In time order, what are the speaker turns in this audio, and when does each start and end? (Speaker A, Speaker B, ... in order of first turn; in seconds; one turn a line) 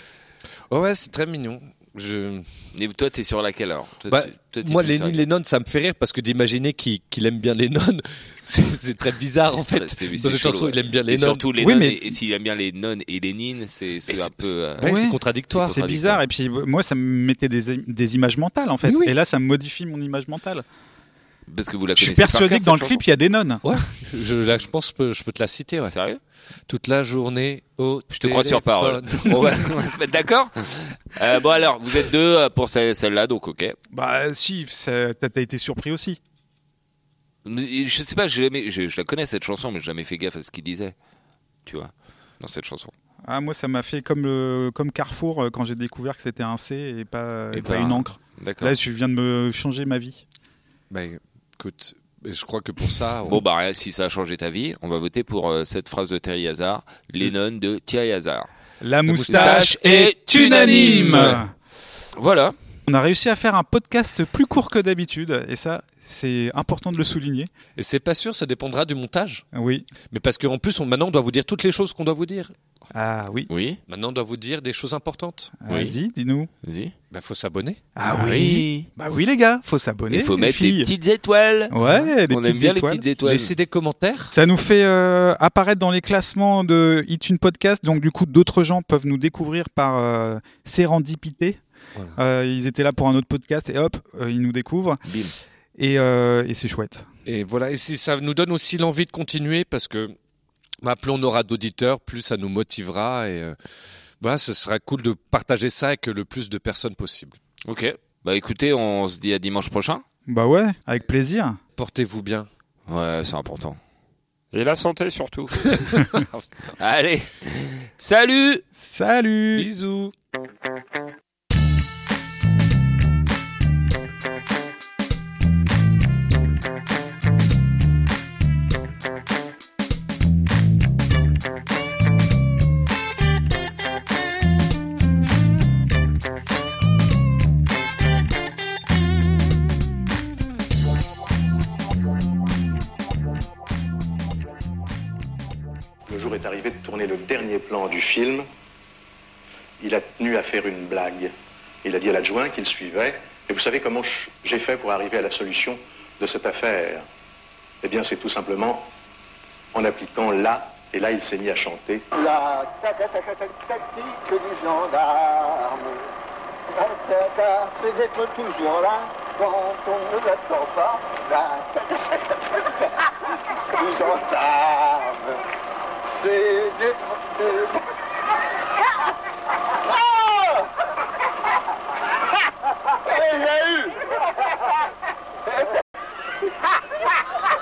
Speaker A: 0.7-2.5
Speaker B: 2.7-5.2
Speaker A: 4.1-11.4
Speaker B: 9.5-14.9
Speaker C: 11.6-12.0
Speaker A: 14.1-15.8
Speaker C: 14.8-20.6
Speaker B: 15.5-16.2
Speaker A: 18.8-19.1
Speaker B: 21.5-23.0
Speaker C: 22.0-23.8
Speaker A: 23.6-25.9
Speaker B: 25.9-26.2
Speaker A: 26.7-29.8
Speaker B: 28.1-33.8
Speaker C: 33.9-36.2
Speaker B: 37.4-40.9
Speaker B: 41.6-42.9
Speaker C: 43.2-50.2
Speaker B: 47.5-48.7
Speaker A: 50.9-53.4
Speaker B: 53.2-58.5
Speaker C: 58.8-61.5
Speaker A: 59.0-59.8
Speaker B: 59.3-61.4
Speaker A: 60.3-61.4
Speaker B: 62.1-62.5
Speaker C: 62.9-67.5
Speaker A: 67.8-69.4
Speaker C: 69.5-69.9
Speaker A: 70.1-72.5
Speaker C: 72.9-73.5
Speaker B: 73.5-73.8
Speaker A: 73.9-75.7
Speaker C: 75.6-76.5
Speaker B: 76.6-76.9
Speaker A: 77.1-77.8
Speaker C: 78.0-80.9
Speaker B: 78.1-78.9
Speaker B: 80.1-83.5
Speaker C: 81.7-83.0
Speaker A: 81.8-82.1
Speaker A: 83.2-84.3
Speaker C: 84.3-91.6
Speaker C: 92.2-95.0
Speaker B: 95.0-95.3
Speaker C: 95.8-97.1
Speaker A: 97.2-100.1
Speaker A: 100.8-103.5
Speaker A: 104.2-107.4
Speaker B: 107.6-110.0
Speaker C: 110.3-111.6
Speaker A: 111.8-112.5
Speaker B: 112.9-113.8
Speaker B: 114.5-116.2
Speaker A: 115.8-116.7
Speaker B: 116.8-118.6
Speaker C: 118.7-119.7
Speaker A: 119.5-120.1
Speaker D: 146.1-148.5
Speaker D: 149.8-151.3
Speaker D: 151.8-157.0
Speaker D: 157.8-158.9
Speaker D: 159.7-162.0
Speaker E: 162.1-166.1
Speaker E: 166.8-173.0
Speaker E: 173.8-175.4
Speaker E: 176.1-177.8
Speaker E: 179.9-180.7
Speaker E: 183.0-184.0